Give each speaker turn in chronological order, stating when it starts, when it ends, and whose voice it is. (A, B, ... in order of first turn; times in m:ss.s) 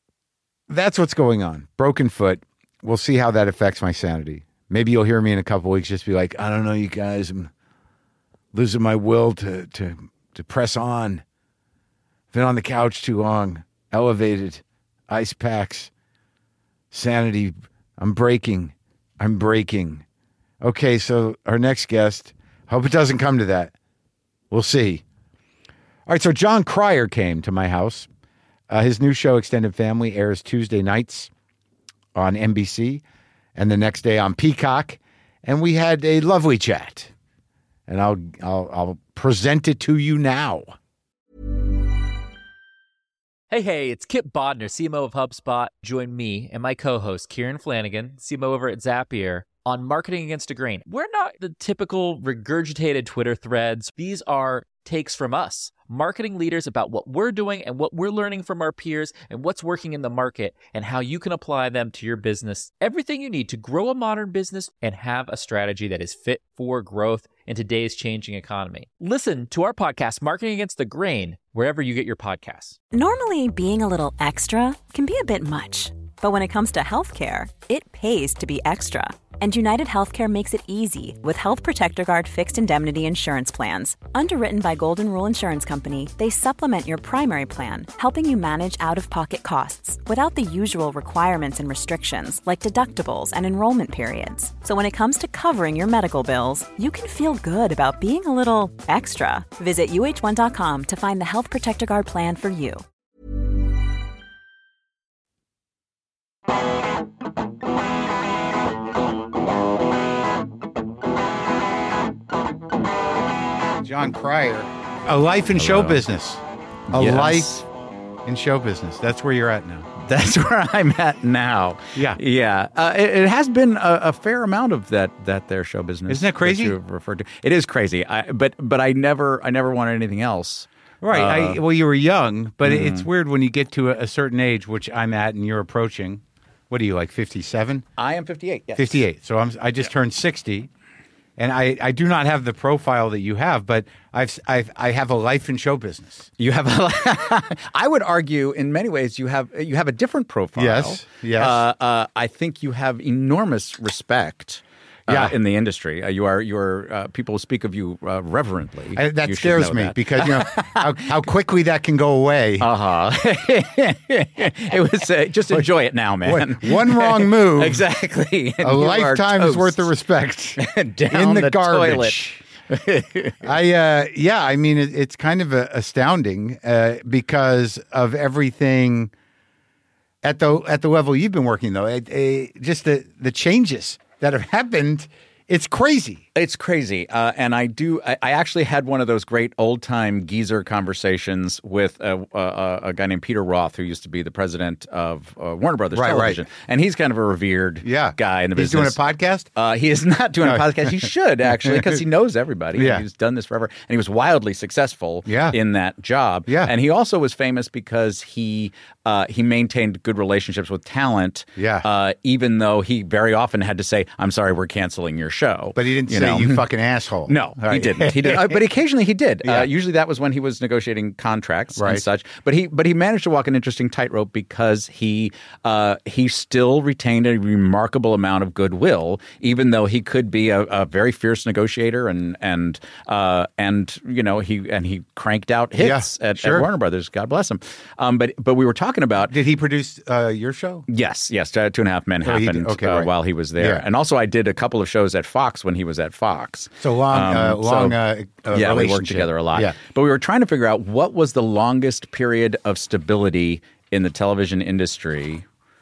0:00.7-0:07.5 A
0:08.5-0:11.2 A
0:12.3-0:15.9 A
0:16.9-0:20.0 A
0:20.6-0:23.7 A
0:24.5-0:25.0 A
0:26.1-0:28.1 A
0:28.7-0:31.3 A
0:32.1-0:33.0 A
0:33.6-0:37.1 A
0:37.9-0:40.7 A
0:43.5-1:12.8 B
1:12.9-1:42.8 C
1:53.8-1:57.6 A
1:55.6-1:56.0 D
1:56.9-1:57.6 D
1:58.2-1:59.9 A
2:00.0-2:11.6 D
2:06.1-2:06.8 A
2:11.0-2:17.8 A
2:12.6-2:13.1 D
2:18.0-2:19.0 D
2:18.7-2:20.7 A
2:21.4-2:26.3 A
2:26.4-2:41.0 D
2:30.6-2:31.6 A
2:35.1-2:35.4 A
2:38.9-2:42.7 A
2:42.6-2:49.9 D
2:46.2-2:47.8 A
2:48.6-2:52.4 A
2:50.6-2:53.5 D
2:53.4-2:59.1 A
3:00.2-3:06.2 A
3:06.4-3:19.0 D
3:15.9-3:16.4 A
3:17.8-3:19.5 A
3:19.6-3:36.6 D
3:20.4-3:20.7 A
3:21.6-3:22.0 A
3:22.7-3:23.0 A
3:25.2-3:25.6 A
3:26.5-3:26.7 A
3:31.6-3:31.9 A
3:35.7-3:38.6 A
3:37.3-3:59.3 D
3:39.4-3:39.7 A
3:41.8-3:42.0 A
3:55.8-3:56.7 A
3:59.3-4:00.8 A
4:00.9-4:08.0 D
4:02.2-4:03.8 A
4:06.8-4:09.7 A
4:08.5-4:15.4 D